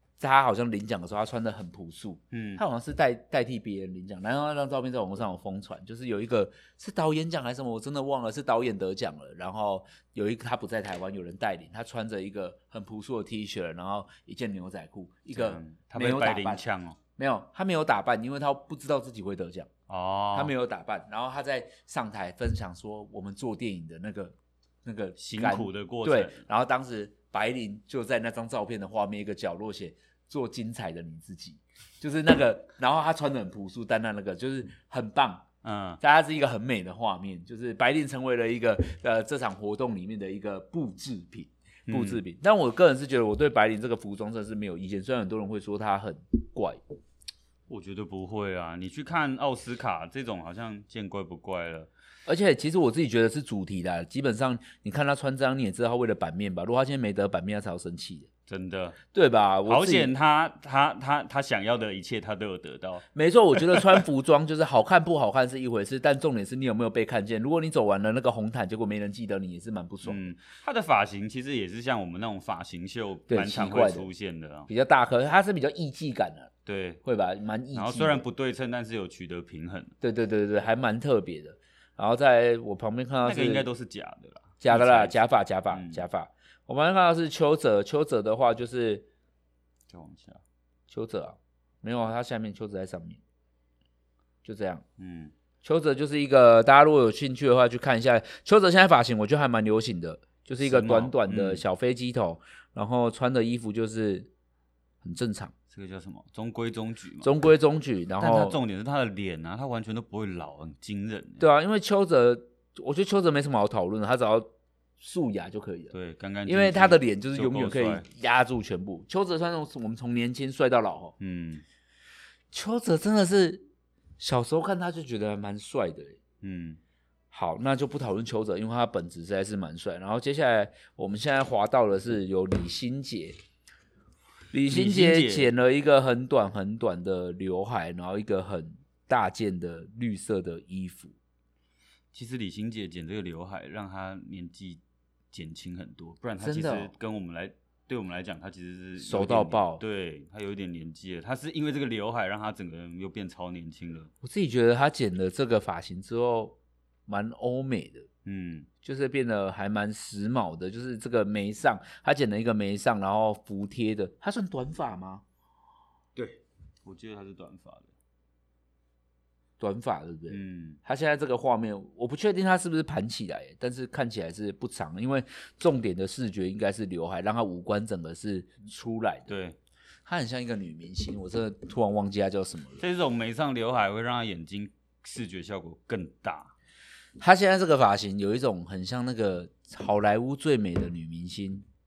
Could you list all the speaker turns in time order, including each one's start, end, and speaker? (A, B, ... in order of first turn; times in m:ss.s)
0:00.2-0:16.6 A
0:02.3-0:02.6 B
0:15.3-0:17.0 B
0:17.2-0:19.7 A
0:19.9-0:20.5 B
0:20.3-0:35.4 A
0:25.2-0:26.4 B
0:35.6-0:36.0 B
0:36.0-0:46.8 A
0:41.9-0:42.2 B
0:47.7-0:51.9 B
0:52.3-0:58.3 A
0:58.5-0:59.0 B
0:59.1-1:00.1 A
0:59.7-1:03.0 B
1:03.2-1:10.2 A
1:03.6-1:04.0 B
1:10.0-1:14.7 B
1:13.3-1:14.1 A
1:14.7-1:16.5 A
1:16.7-1:17.0 B
1:17.0-1:18.2 A
1:17.7-1:19.9 B
1:20.0-1:23.7 A
1:23.2-1:25.2 B
1:24.6-1:29.1 A
1:25.7-1:26.0 B
1:29.9-1:30.4 B
1:30.9-1:33.2 A
1:34.4-1:34.8 A
1:35.0-1:35.3 B
1:35.6-1:44.3 A
1:40.6-1:41.6 B
1:45.0-1:45.5 A
1:45.7-1:47.3 B
1:47.2-1:48.6 A
1:48.2-1:51.4 B
1:51.4-1:55.9 A
1:55.9-1:58.0 B
1:56.5-2:01.1 A
2:01.2-2:01.6 B
2:02.5-2:03.7 A
2:04.2-2:06.2 A
2:06.4-2:06.8 B
2:07.3-2:13.4 A
2:14.5-2:21.1 A
2:14.7-2:15.5 B
2:22.1-2:24.8 B
2:25.3-2:34.1 B
2:26.4-2:26.9 A
2:29.0-2:29.8 A
2:34.2-2:36.6 A
2:37.1-2:38.1 A
2:38.2-2:38.7 B
2:38.8-2:45.2 A
2:46.2-2:47.9 B
2:49.6-2:59.3 A
2:50.3-2:50.8 B
2:59.3-2:59.6 B
3:00.1-3:02.8 A
3:02.8-3:06.5 B
3:07.2-3:11.6 A